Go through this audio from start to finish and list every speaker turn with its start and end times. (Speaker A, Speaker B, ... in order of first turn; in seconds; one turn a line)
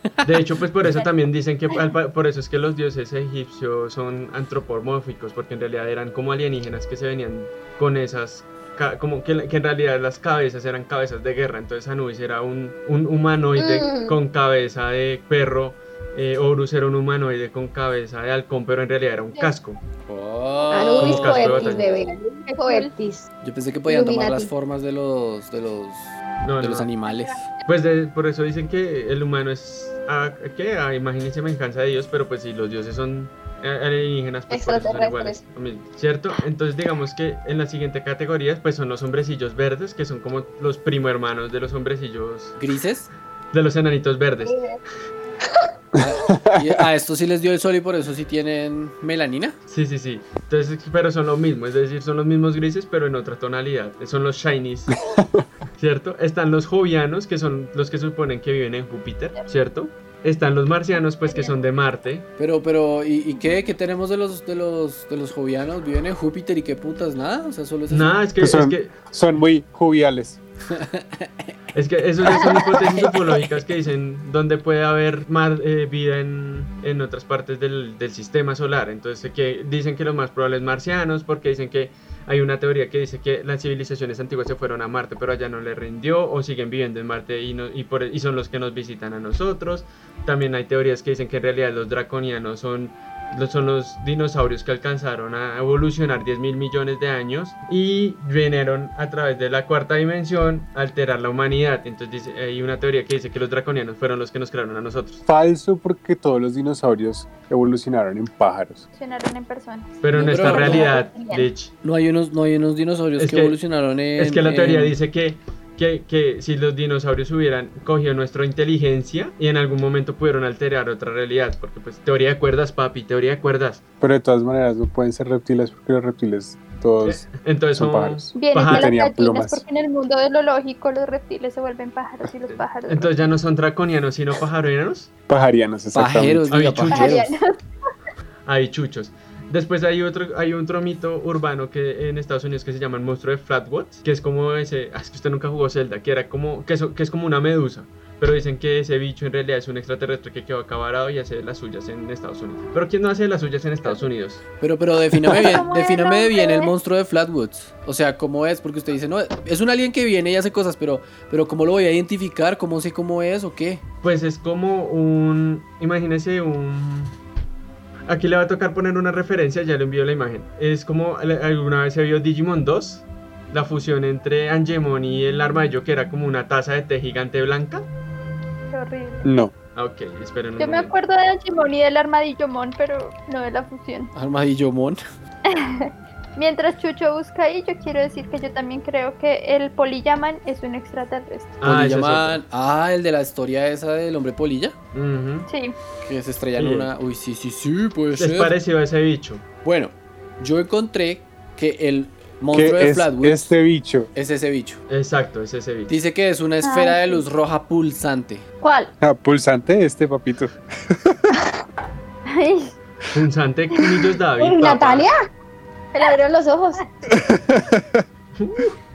Speaker A: 0.2-19.8
Speaker B: 13.6-14.2
Speaker C: 20.1-21.7
Speaker B: 20.7-23.3
Speaker A: 21.0-21.9
Speaker D: 21.1-22.9
Speaker C: 23.4-27.5
Speaker B: 23.8-24.5
Speaker A: 26.4-26.9
Speaker D: 27.0-27.5
Speaker A: 27.6-42.6
Speaker B: 34.5-35.4
Speaker C: 42.6-43.1
Speaker A: 43.5-44.5
Speaker E: 46.0-46.8
Speaker C: 46.0-49.6
Speaker A: 49.7-55.0
Speaker E: 55.1-55.4
Speaker A: 55.8-62.3
Speaker D: 61.2-61.5
Speaker C: 62.4-68.1
Speaker A: 67.9-69.0
Speaker E: 68.4-70.4
Speaker C: 70.7-71.3
Speaker A: 71.7-105.2
Speaker C: 72.3-73.1
Speaker E: 105.3-108.8
Speaker D: 108.9-111.5
Speaker A: 110.0-111.7
Speaker C: 110.1-111.0
Speaker C: 111.8-114.9
Speaker A: 113.2-113.6
Speaker A: 114.2-123.8
Speaker E: 124.0-129.6
Speaker A: 127.0-128.9
Speaker D: 128.3-133.1
Speaker A: 132.5-135.1
Speaker E: 135.3-136.5
Speaker C: 135.9-137.4
Speaker A: 136.5-137.2
Speaker B: 136.9-137.3
Speaker D: 136.9-137.4
Speaker A: 138.4-154.4
Speaker C: 154.5-163.8
Speaker D: 155.4-156.7
Speaker A: 164.0-167.1
Speaker A: 168.1-177.9
Speaker D: 178.7-179.3
Speaker E: 179.2-179.5
Speaker A: 179.7-180.9
Speaker D: 180.6-184.1
Speaker C: 184.1-185.0
Speaker D: 185.5-191.6
Speaker A: 191.6-192.4
Speaker C: 191.6-194.7
Speaker A: 194.9-195.5
Speaker D: 195.5-195.8
Speaker C: 196.0-198.5
Speaker A: 196.6-196.9
Speaker A: 198.2-199.4
Speaker C: 199.6-203.5
Speaker E: 202.5-204.1
Speaker C: 204.1-204.8
Speaker A: 204.9-205.9
Speaker C: 205.9-208.4
Speaker D: 206.6-207.2
Speaker B: 208.6-208.9
Speaker E: 209.0-211.4
Speaker D: 212.3-212.7
Speaker A: 213.1-215.1
Speaker B: 214.4-215.2
Speaker B: 215.9-216.8
Speaker E: 217.1-218.0
Speaker A: 218.3-218.8